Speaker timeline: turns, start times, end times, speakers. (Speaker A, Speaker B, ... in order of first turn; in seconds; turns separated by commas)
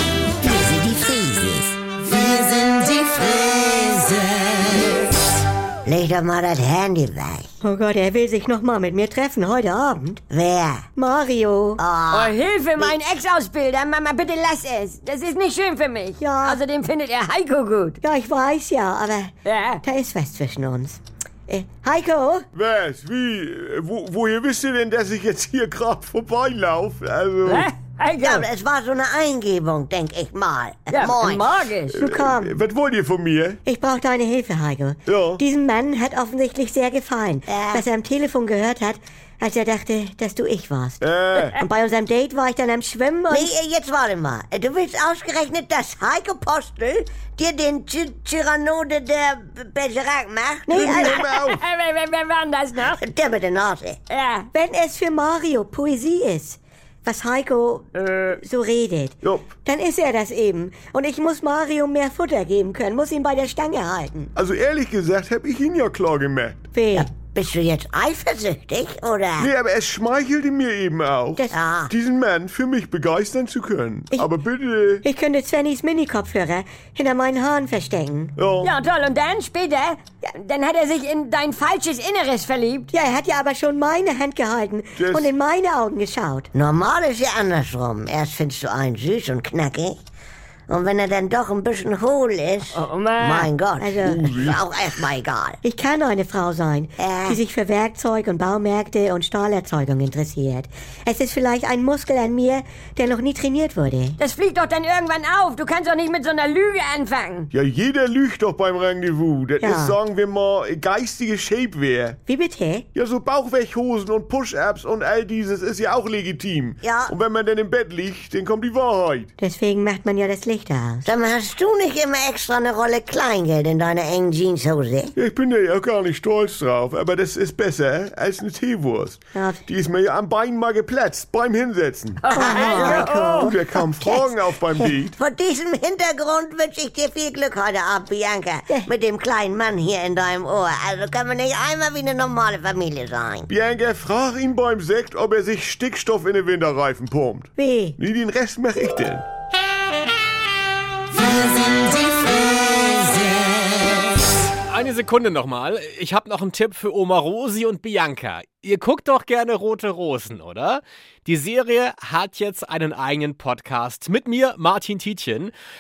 Speaker A: 0.4-1.8, Speaker A: 2.4-4.9, Speaker A: 5.9-7.5, Speaker B: 7.6-10.2, Speaker A: 10.3-10.9, Speaker B: 11.0-11.8, Speaker A: 11.8-12.9, Speaker C: 12.1-18.0, Speaker B: 16.2-16.6, Speaker B: 18.0-22.5, Speaker C: 19.4-19.8, Speaker D: 22.5-27.7, Speaker C: 27.5-28.5, Speaker A: 28.2-31.6, Speaker C: 30.9-32.0, Speaker B: 31.9-32.5, Speaker D: 31.9-33.6, Speaker B: 33.6-43.5, Speaker D: 35.1-35.4, Speaker A: 37.5-37.8, Speaker D: 41.0-41.6, Speaker A: 43.3-51.1, Speaker B: 50.7-51.2, Speaker D: 50.7-51.6, Speaker C: 51.1-53.0, Speaker A: 52.9-54.0, Speaker C: 54.1-54.5, Speaker B: 54.5-64.3, Speaker C: 58.0-58.4, Speaker D: 59.2-59.5, Speaker D: 64.4-66.6, Speaker B: 66.7-67.1, Speaker A: 67.0-69.5, Speaker D: 69.4-75.0, Speaker A: 71.5-71.9, Speaker B: 75.0-78.3, Speaker D: 78.4-78.7, Speaker C: 78.6-82.9, Speaker B: 82.9-86.5, Speaker D: 85.0-85.3, Speaker A: 86.5-90.0, Speaker A: 90.7-95.6, Speaker C: 92.8-93.5, Speaker B: 93.8-94.2, Speaker D: 94.1-94.6, Speaker B: 95.6-104.2, Speaker A: 97.0-97.4, Speaker C: 104.2-107.5, Speaker D: 107.5-112.2, Speaker B: 109.6-110.0, Speaker B: 112.3-112.9, Speaker D: 112.9-119.3, Speaker A: 116.8-117.1, Speaker B: 119.4-121.1, Speaker A: 121.0-125.1, Speaker D: 125.2-135.2, Speaker B: 129.3-129.6, Speaker C: 132.2-133.6, Speaker B: 132.3-134.9, Speaker A: 132.4-132.7, Speaker A: 135.2-143.5, Speaker D: 143.5-149.2, Speaker B: 147.6-148.0, Speaker E: 154.7-165.5